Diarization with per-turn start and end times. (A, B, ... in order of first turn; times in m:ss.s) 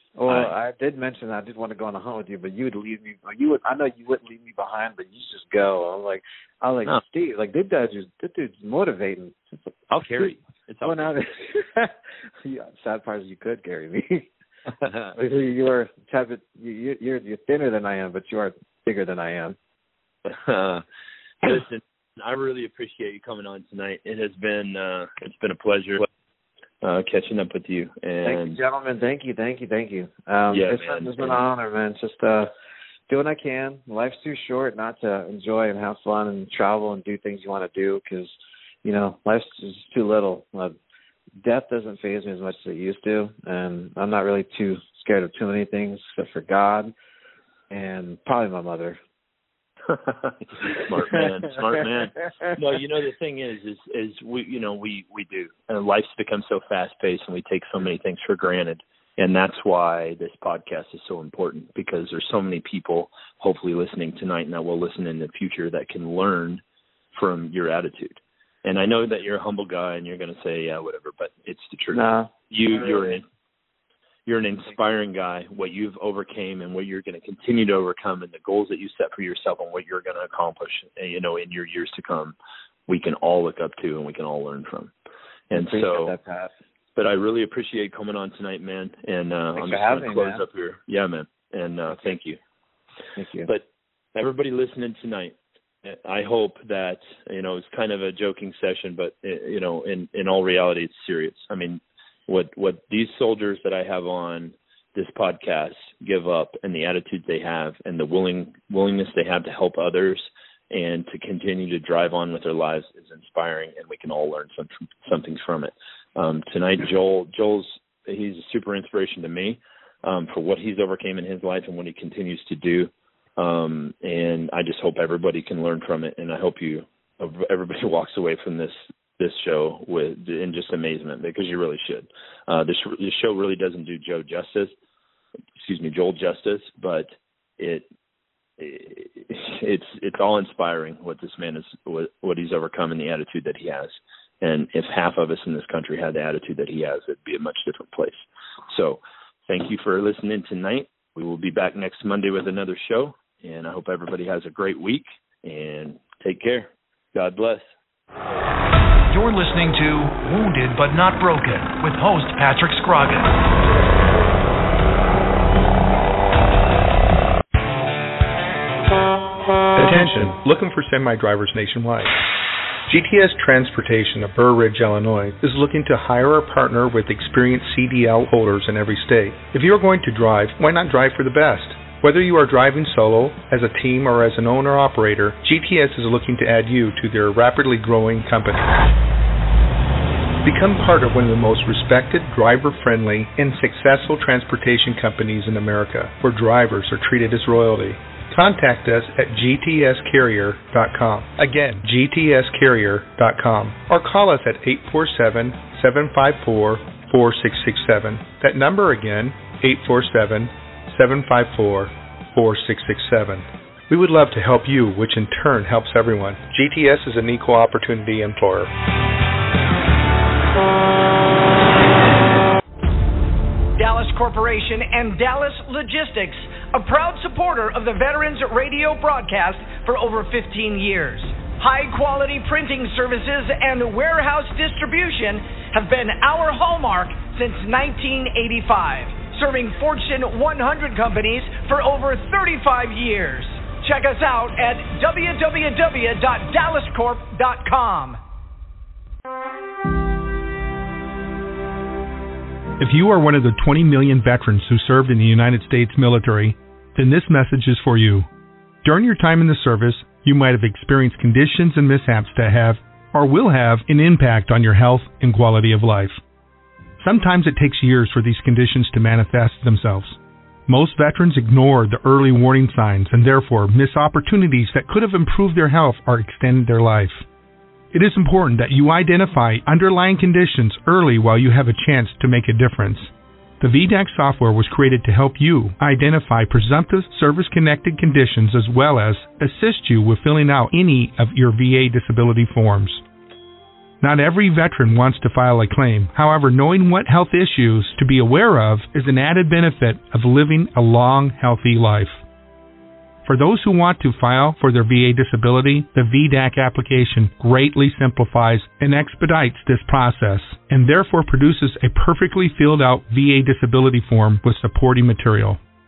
0:00.2-0:10.3 A
0:00.3-0:00.5 B
0:09.9-0:11.1 B
0:10.8-0:14.3 A
0:14.8-0:15.1 B
0:15.1-0:19.6 A
0:20.2-0:20.8 B
0:21.4-0:26.0 B
0:26.8-0:28.6 B
0:28.2-0:32.5 A
0:30.5-0:31.4 B
0:33.1-0:40.8 A
0:41.4-0:46.9 A
0:47.7-0:49.0 A
0:49.9-1:06.6 B
0:51.1-0:51.9 A
1:07.1-1:13.2 B
1:11.9-1:13.2 A
1:14.2-1:22.3 B
1:22.9-1:24.9 B
1:25.5-1:26.2 B
1:25.5-1:26.5 A
1:27.0-1:32.4 B
1:29.6-1:30.4 A
1:33.2-1:33.5 A
1:34.1-2:14.7 B
2:15.6-2:17.8 B
2:18.6-2:37.7 B
2:39.1-2:43.4 C
2:49.8-2:52.1 D
2:52.9-3:08.8 D
3:10.4-3:38.7 D
3:43.8-4:08.2 E
4:12.8-4:18.3 D
4:18.8-4:26.2 D
4:27.0-4:37.2 D
4:37.9-4:53.0 D
4:54.0-5:02.2 D
5:03.2-5:15.6 D